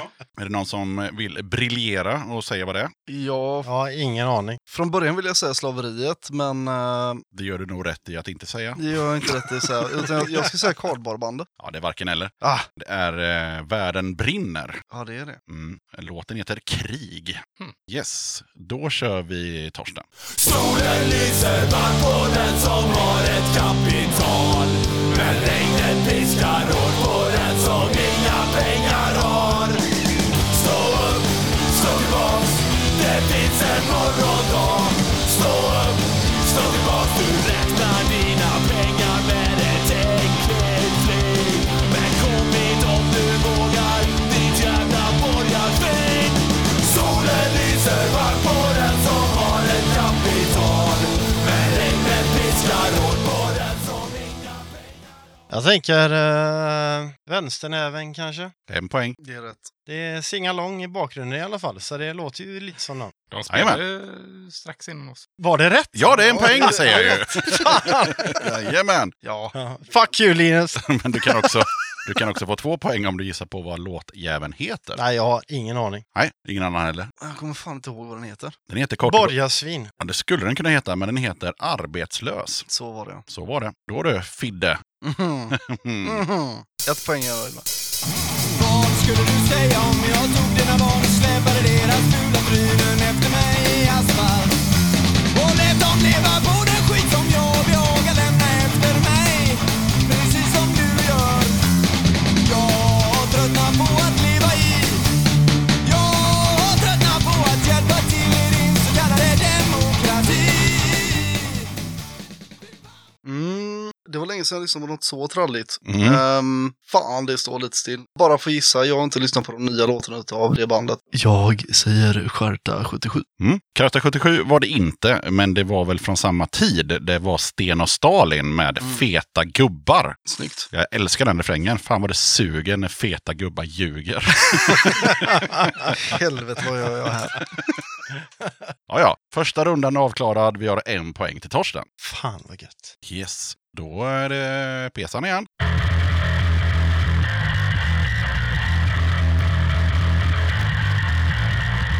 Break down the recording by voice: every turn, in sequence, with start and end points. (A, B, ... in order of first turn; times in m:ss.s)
0:00.4-0:02.9 A
0:03.1-0:03.7 B
0:03.6-0:04.6 C
0:04.7-0:07.2 B
0:07.3-0:09.3 A
0:08.8-0:11.5 B
0:11.6-0:14.8 A
0:12.4-0:12.7 B
0:14.9-0:15.4 B
0:15.5-0:20.0 A
0:20.3-0:29.8 D
0:30.5-0:54.7 D
0:55.5-0:58.5 C
0:58.7-0:59.2 A
0:59.2-0:59.7 B
0:59.9-1:03.1 C
1:03.3-1:05.3 E
1:03.5-1:03.8 A
1:05.4-1:08.4 C
1:05.9-1:09.1 A
1:06.2-1:07.1 B
1:09.2-1:09.5 B
1:09.5-1:11.5 C
1:10.8-1:15.0 A
1:15.0-1:16.0 C
1:16.1-1:17.1 A
1:17.2-1:18.6 B
1:18.7-1:19.4 A
1:19.0-1:19.9 C
1:20.0-1:22.6 A
1:22.7-1:23.2 B
1:23.3-1:24.8 A
1:25.0-1:27.6 B
1:25.5-1:26.2 A
1:28.5-1:34.6 D
1:35.3-1:41.6 D
1:42.4-1:45.1 D
1:45.8-1:51.6 D
1:53.2-2:03.2 B
1:55.8-1:56.2 A
2:03.4-2:10.2 A
2:10.2-2:10.7 B
2:10.7-2:15.9 A
2:16.0-2:17.5 B
2:18.9-2:21.9 A
2:22.0-2:22.9 C
2:23.0-2:25.5 A